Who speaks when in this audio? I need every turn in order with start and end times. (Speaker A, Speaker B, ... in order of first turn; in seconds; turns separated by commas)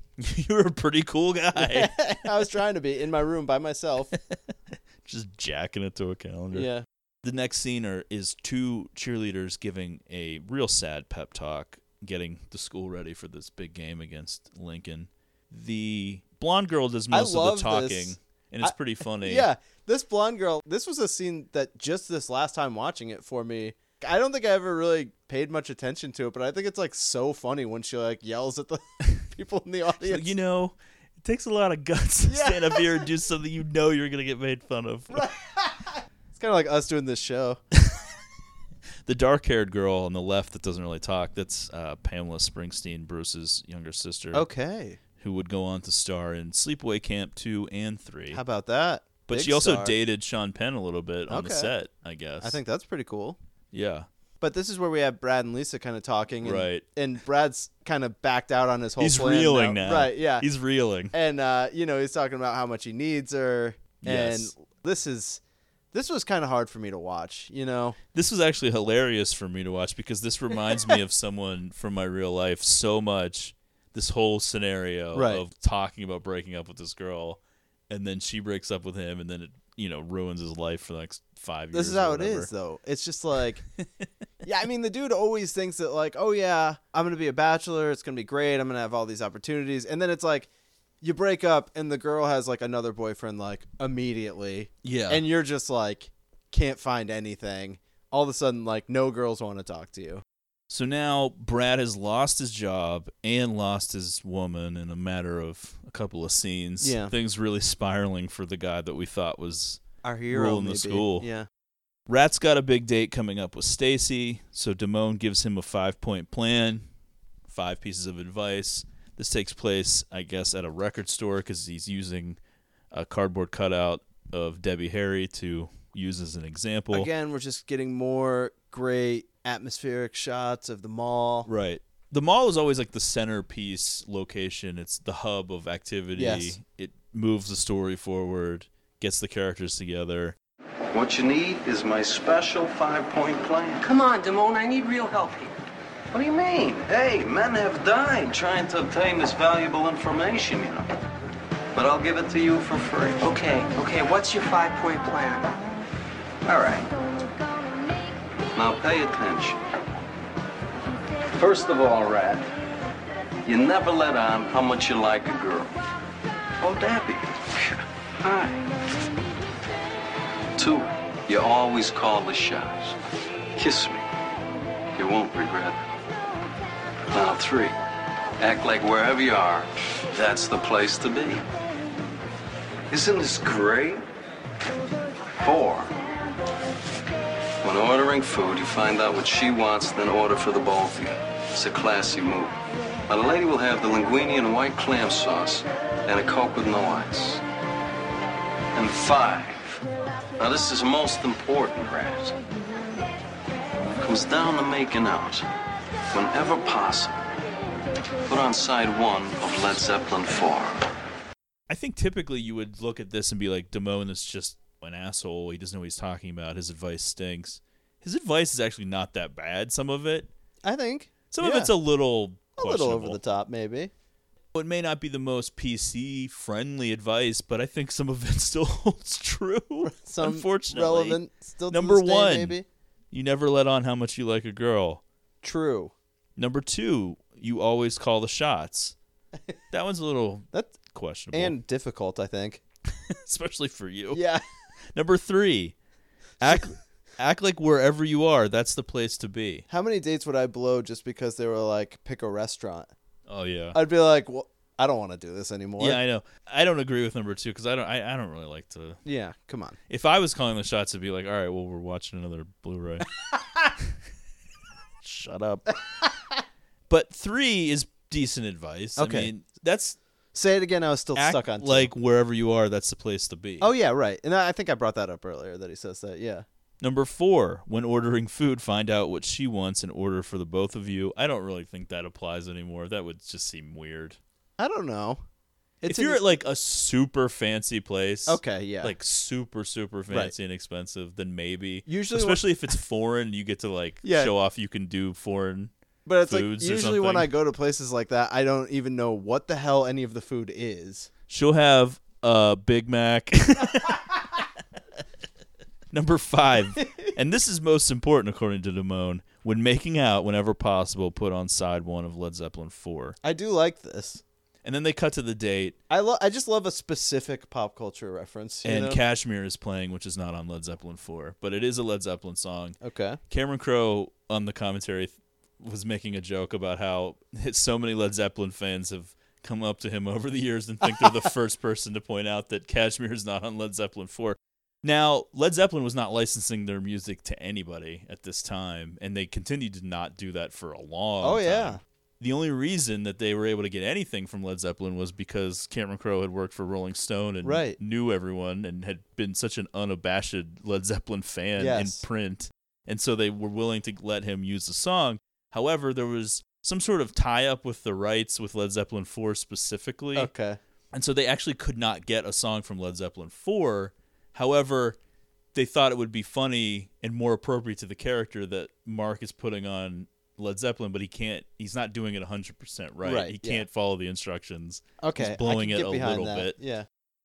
Speaker A: 0.2-2.3, Speaker B: 1.5-4.2, Speaker A: 4.3-6.7, Speaker B: 6.5-6.8, Speaker A: 7.2-19.5, Speaker B: 17.1-30.3, Speaker A: 30.0-35.3, Speaker B: 32.3-33.0, Speaker B: 35.1-37.6, Speaker A: 37.8-38.0, Speaker A: 39.0-44.5, Speaker B: 44.3-45.0, Speaker A: 45.2-48.4, Speaker B: 48.3-49.9, Speaker A: 49.3-52.6, Speaker B: 51.3-51.7, Speaker B: 52.4-53.4, Speaker A: 53.7-54.1, Speaker B: 54.4-60.5, Speaker A: 56.4-56.8, Speaker A: 59.0-61.1, Speaker B: 61.1-65.4, Speaker A: 64.0-64.5, Speaker B: 65.9-68.0, Speaker A: 68.1-82.5, Speaker B: 75.1-75.4, Speaker B: 81.7-83.6, Speaker B: 84.4-90.5, Speaker B: 91.0-100.2, Speaker A: 94.8-95.2, Speaker A: 100.7-111.3, Speaker B: 106.8-107.1, Speaker B: 110.0-111.5, Speaker A: 112.1-116.8, Speaker A: 117.5-122.4, Speaker A: 122.9-127.1, Speaker B: 126.9-131.5, Speaker A: 131.4-140.3, Speaker B: 136.1-136.6, Speaker C: 140.9-143.8, Speaker D: 143.8-145.6, Speaker C: 146.1-150.9, Speaker C: 151.7-153.2, Speaker D: 153.2-155.5, Speaker C: 156.4-156.9, Speaker C: 158.5-159.6, Speaker C: 161.4-162.4, Speaker C: 163.4-165.7, Speaker C: 166.6-168.6, Speaker C: 170.6-172.9, Speaker C: 173.6-174.0, Speaker C: 174.9-175.8, Speaker C: 177.1-177.8, Speaker C: 178.4-181.4, Speaker C: 182.9-184.0, Speaker C: 185.3-185.9, Speaker C: 187.6-192.6, Speaker C: 193.1-197.4, Speaker C: 198.7-199.8, Speaker C: 200.4-202.4, Speaker C: 204.0-205.4, Speaker C: 206.1-207.3, Speaker C: 208.2-210.8, Speaker A: 211.7-220.3, Speaker B: 220.6-221.7, Speaker A: 221.3-223.2, Speaker B: 222.6-223.9, Speaker A: 224.5-232.6, Speaker B: 229.8-232.7, Speaker A: 233.1-235.0, Speaker B: 235.4-235.9, Speaker A: 236.3-238.9, Speaker A: 239.7-241.6, Speaker B: 241.3-242.6, Speaker A: 243.0-244.2, Speaker B: 244.1-244.4, Speaker A: 244.9-245.7, Speaker A: 246.4-249.7, Speaker B: 249.7-252.9, Speaker A: 253.3-253.8, Speaker B: 253.7-256.0, Speaker A: 255.8-259.0, Speaker B: 259.0-259.8, Speaker A: 259.9-263.1, Speaker A: 265.0-265.7, Speaker A: 266.9-270.0, Speaker B: 269.0-269.3, Speaker B: 270.3-271.9, Speaker A: 271.1-273.7, Speaker B: 273.6-276.4, Speaker A: 276.8-284.2, Speaker B: 284.6-285.2, Speaker B: 285.8-286.2, Speaker A: 285.9-295.7, Speaker B: 288.3-288.9, Speaker B: 291.9-292.5, Speaker B: 294.0-294.3, Speaker B: 296.1-301.1, Speaker A: 296.2-297.3, Speaker A: 301.3-304.0, Speaker A: 305.9-313.2, Speaker B: 306.8-307.1, Speaker B: 313.2-314.2, Speaker A: 314.6-315.8, Speaker B: 315.9-319.0, Speaker A: 318.6-322.8, Speaker B: 322.8-323.2, Speaker A: 323.3-360.3, Speaker B: 341.2-341.8, Speaker B: 347.4-347.8, Speaker B: 351.6-352.0, Speaker B: 360.1-360.6, Speaker A: 360.9-365.0, Speaker A: 365.5-376.6, Speaker B: 373.0-373.6, Speaker B: 375.0-376.9